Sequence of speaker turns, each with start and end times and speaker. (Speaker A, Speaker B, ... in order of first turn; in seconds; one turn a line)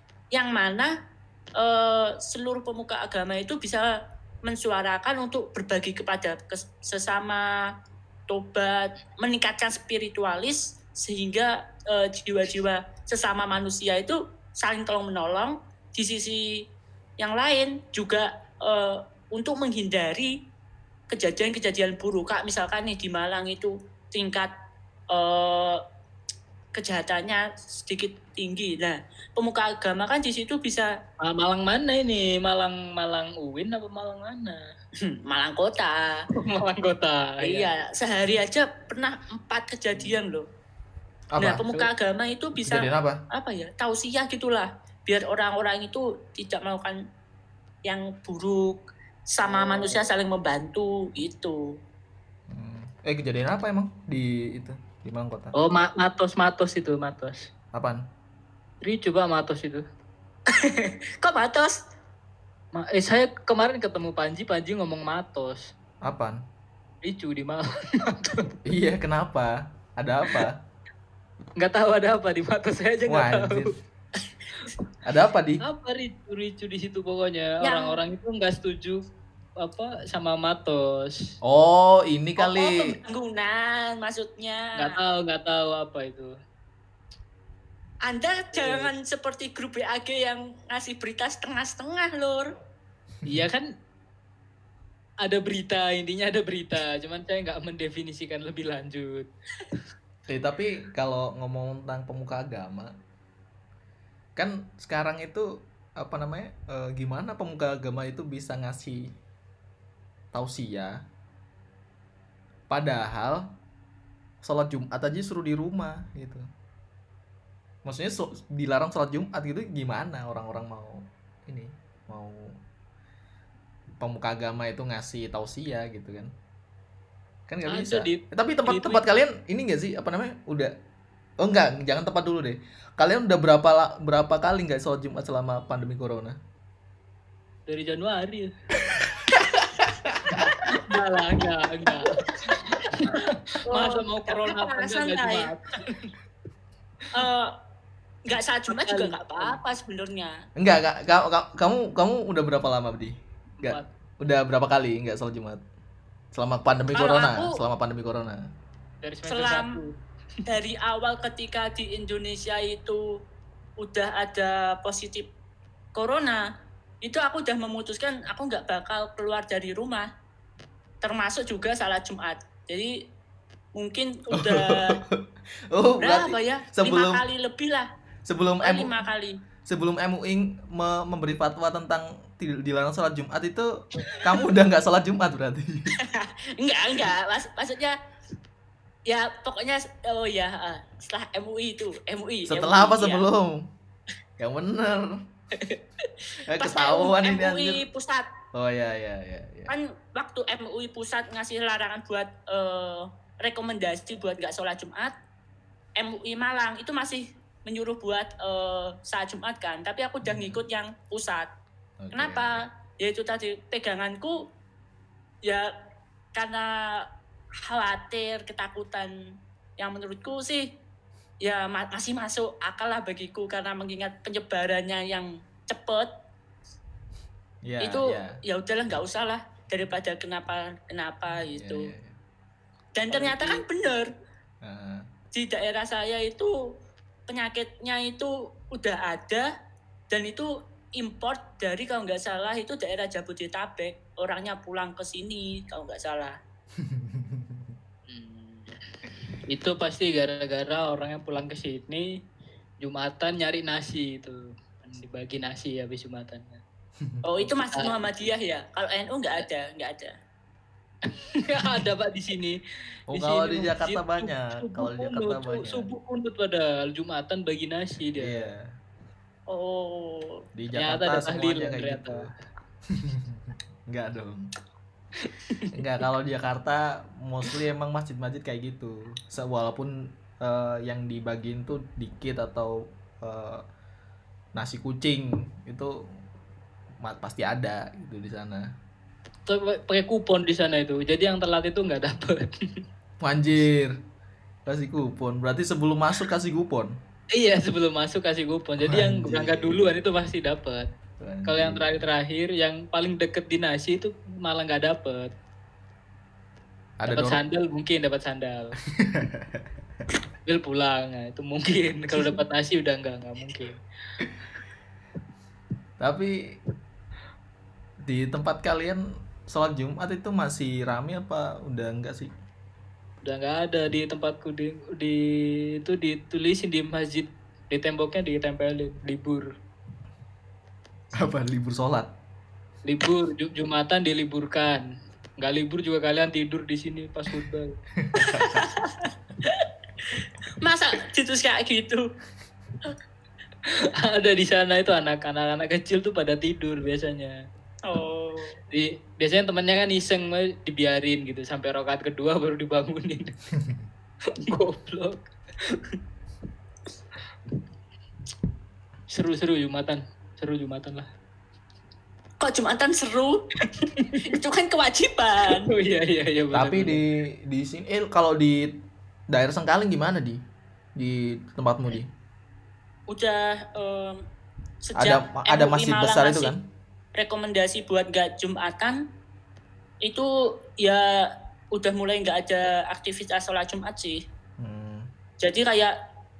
Speaker A: 0.3-0.9
Speaker A: 1.6-3.9
Speaker A: 4.5-7.5
Speaker A: 8.3-16.6
Speaker A: 17.2-20.3
Speaker A: 21.1-24.5
Speaker A: 25.1-25.8
Speaker A: 26.7-30.9
Speaker B: 31.2-34.6
Speaker A: 35.0-36.3
Speaker B: 36.4-37.7
Speaker A: 37.4-40.4
Speaker B: 40.0-40.2
Speaker C: 41.3-41.7
Speaker A: 41.4-47.0
Speaker C: 42.6-43.2
Speaker A: 47.9-51.8
Speaker B: 49.5-50.0
Speaker C: 52.5-55.5
Speaker B: 55.5-57.5
Speaker C: 57.7-58.0
Speaker B: 58.8-59.8
Speaker A: 60.5-61.8
Speaker B: 62.8-65.7
Speaker C: 66.0-66.4
Speaker B: 67.0-68.5
Speaker C: 68.7-70.6
Speaker B: 71.6-73.7
Speaker C: 73.1-73.8
Speaker C: 75.0-75.6
Speaker B: 75.6-79.0
Speaker A: 77.6-78.0
Speaker B: 79.6-81.2
Speaker C: 81.4-82.9
Speaker A: 82.4-84.9
Speaker B: 84.8-86.3
Speaker A: 88.1-92.5
Speaker B: 88.5-88.9
Speaker B: 93.3-93.7
Speaker B: 95.2-99.3
Speaker C: 100.3-102.9
Speaker C: 104.4-109.2
Speaker C: 110.3-111.0
Speaker C: 112.7-113.5
Speaker C: 114.4-116.5
Speaker C: 117.8-122.5
Speaker C: 124.0-126.3
Speaker C: 127.5-130.8
Speaker B: 127.7-129.0
Speaker C: 131.4-136.4
Speaker B: 137.7-138.5
Speaker C: 138.9-140.5
Speaker B: 140.3-146.1
Speaker A: 143.7-145.5
Speaker A: 147.1-147.5
Speaker A: 148.3-150.3
Speaker B: 148.7-149.6
Speaker C: 150.6-155.6
Speaker B: 153.6-153.9
Speaker C: 156.3-158.4
Speaker A: 157.0-157.6
Speaker B: 159.0-159.9
Speaker A: 159.3-159.8
Speaker A: 160.5-163.0
Speaker A: 163.8-165.3
Speaker A: 165.9-166.4
Speaker A: 167.0-170.1
Speaker A: 171.0-172.9
Speaker A: 173.8-175.0
Speaker C: 174.3-177.2
Speaker A: 176.0-177.9
Speaker C: 178.2-178.9
Speaker A: 178.6-179.4
Speaker C: 179.7-185.9
Speaker A: 186.0-188.0
Speaker A: 189.1-193.2
Speaker C: 192.5-193.7
Speaker C: 194.4-195.2
Speaker A: 195.6-198.3
Speaker C: 196.5-197.8
Speaker C: 198.5-199.7
Speaker A: 199.7-205.1
Speaker A: 206.0-211.5
Speaker C: 210.2-210.6
Speaker C: 212.0-212.6
Speaker A: 212.1-214.4
Speaker A: 216.3-217.1
Speaker A: 217.6-219.1
Speaker A: 219.8-220.7
Speaker A: 221.4-226.1
Speaker C: 227.6-228.4
Speaker A: 227.8-231.9
Speaker C: 231.4-232.2
Speaker A: 232.9-234.1
Speaker C: 233.1-233.7
Speaker C: 234.6-235.1
Speaker A: 235.3-236.5
Speaker A: 237.3-239.5
Speaker A: 240.1-246.4
Speaker C: 246.8-247.7
Speaker B: 248.1-248.7
Speaker B: 249.5-252.1
Speaker B: 252.8-256.6
Speaker A: 257.2-260.1
Speaker B: 261.2-262.6
Speaker C: 263.1-265.9
Speaker B: 263.1-268.5
Speaker C: 268.2-268.7
Speaker A: 269.5-270.4
Speaker C: 270.6-272.3
Speaker B: 270.8-272.3
Speaker C: 272.9-274.5
Speaker B: 275.2-275.7
Speaker C: 275.7-283.6
Speaker C: 284.6-286.0
Speaker C: 287.0-288.6
Speaker B: 289.5-292.5
Speaker C: 293.2-293.9
Speaker C: 294.7-296.9
Speaker B: 297.4-300.9
Speaker C: 298.8-299.8
Speaker C: 301.2-302.0
Speaker B: 301.5-305.3
Speaker C: 307.0-307.4
Speaker B: 307.1-308.8
Speaker C: 308.9-309.7
Speaker B: 310.5-313.8
Speaker C: 316.0-316.6
Speaker C: 318.1-322.3
Speaker B: 323.2-325.2
Speaker B: 325.8-329.5
Speaker C: 331.2-332.1
Speaker B: 332.9-334.8
Speaker B: 335.4-337.7
Speaker C: 338.0-338.7
Speaker A: 338.3-342.1
Speaker B: 344.0-347.4
Speaker A: 347.9-348.6
Speaker B: 348.7-353.3
Speaker C: 353.6-353.8
Speaker B: 354.4-356.0
Speaker B: 359.1-361.1
Speaker A: 362.4-363.4
Speaker B: 363.7-364.3
Speaker A: 364.2-365.7
Speaker B: 365.6-367.0
Speaker C: 366.5-368.8
Speaker C: 369.3-370.4
Speaker C: 371.0-372.1
Speaker A: 373.1-374.2
Speaker A: 374.8-376.5
Speaker C: 374.9-376.6
Speaker A: 377.1-379.0
Speaker A: 380.0-384.2
Speaker C: 384.6-385.1
Speaker A: 385.4-385.9